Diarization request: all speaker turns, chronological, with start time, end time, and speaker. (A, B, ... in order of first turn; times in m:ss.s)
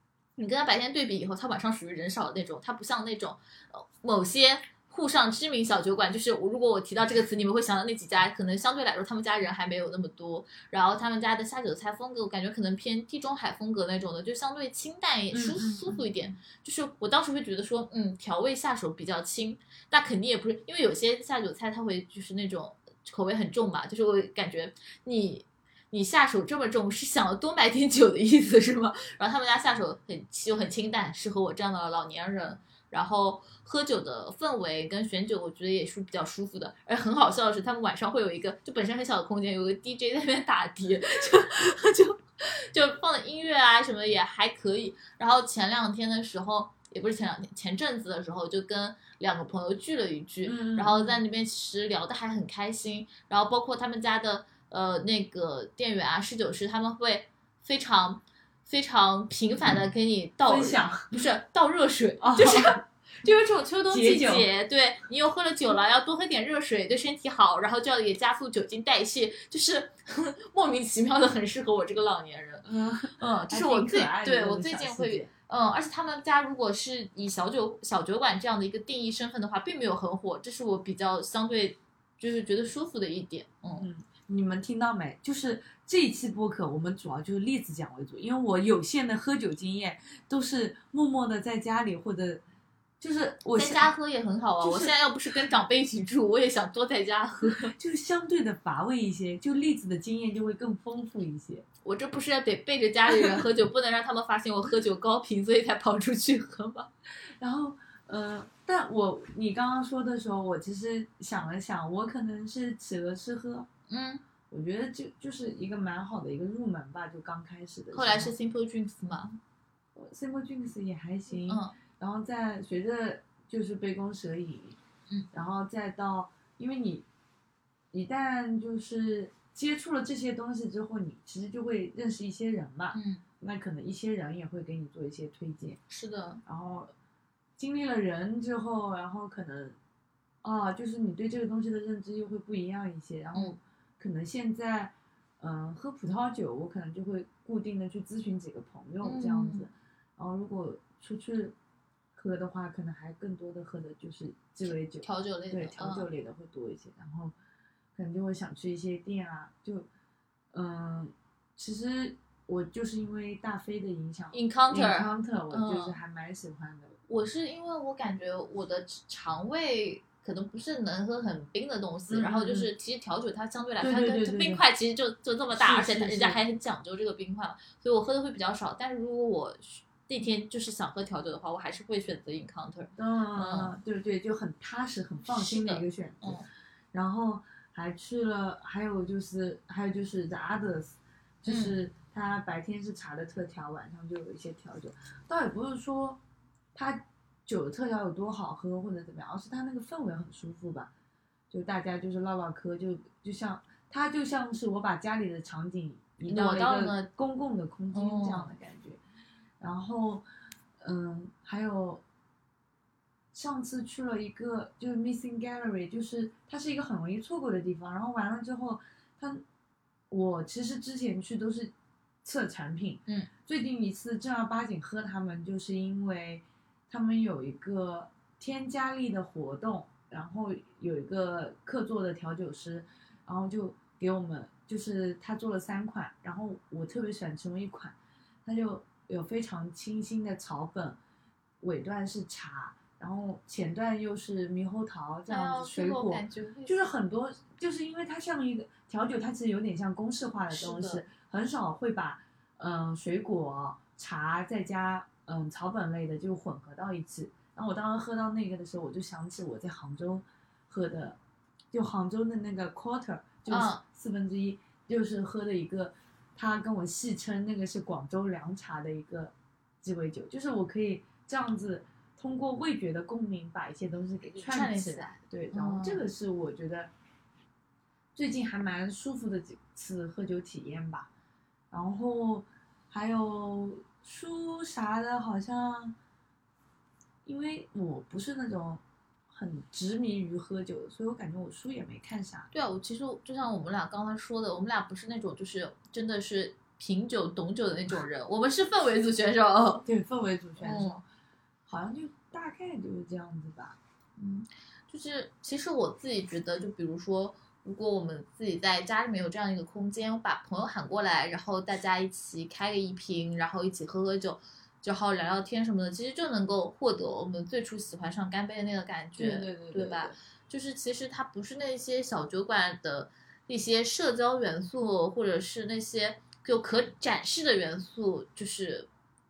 0:00.4-1:12.7 A
0:15.3-0:16.1 B
0:50.4-0:51.2 B
1:00.5-1:01.1 B
1:02.2-1:02.8 B
1:03.9-1:04.5 B
1:12.6-1:15.3 B
1:13.2-1:23.9 A
1:23.7-1:32.4 B
1:33.0-1:33.9 B
1:33.6-1:37.7 A
1:34.6-1:35.0 B
1:37.5-1:41.6 B
1:41.8-1:46.9 A
1:43.1-1:43.4 B
1:47.4-1:53.7 B
1:53.9-1:54.2 A
1:54.5-1:58.3 B
1:57.9-1:59.4 A
2:00.0-2:04.8 B
2:01.5-2:01.8 A
2:05.3-2:07.1 B
2:07.9-2:15.8 B
2:12.9-2:13.2 A
2:15.9-2:16.4 A
2:16.4-2:16.9 B
2:17.6-2:19.8 B
2:20.4-2:31.6 B
2:29.0-2:29.7 A
2:32.2-2:37.4 B
2:35.0-2:36.1 A
2:38.0-2:39.9 B
2:40.5-2:47.0 B
2:44.3-2:46.0 A
2:47.1-3:03.8 A
2:52.1-2:52.7 B
2:53.8-2:54.6 B
2:55.5-2:56.4 B
3:03.0-3:16.2 B
3:05.3-3:06.5 A
3:11.5-3:11.8 A
3:16.7-3:20.9 B
3:21.5-3:29.0 B
3:26.3-3:27.1 A
3:27.9-3:28.5 A
3:29.6-3:30.2 B
3:30.8-3:32.0 B
3:33.3-3:39.4 B
3:40.1-3:41.7 B
3:42.2-4:01.0 B
4:01.6-4:21.2 B
4:05.3-4:06.8 A
4:10.5-4:11.1 A
4:21.7-4:36.9 B
4:23.5-4:23.8 A
4:34.3-4:36.1 A
4:38.2-4:41.1 B
4:41.7-4:46.0 B
4:47.2-4:52.5 B
4:52.5-4:59.9 A
4:59.9-5:01.0 B
5:00.6-5:01.0 A
5:01.7-5:03.8 B
5:04.2-5:28.9 A
5:19.2-5:20.2 B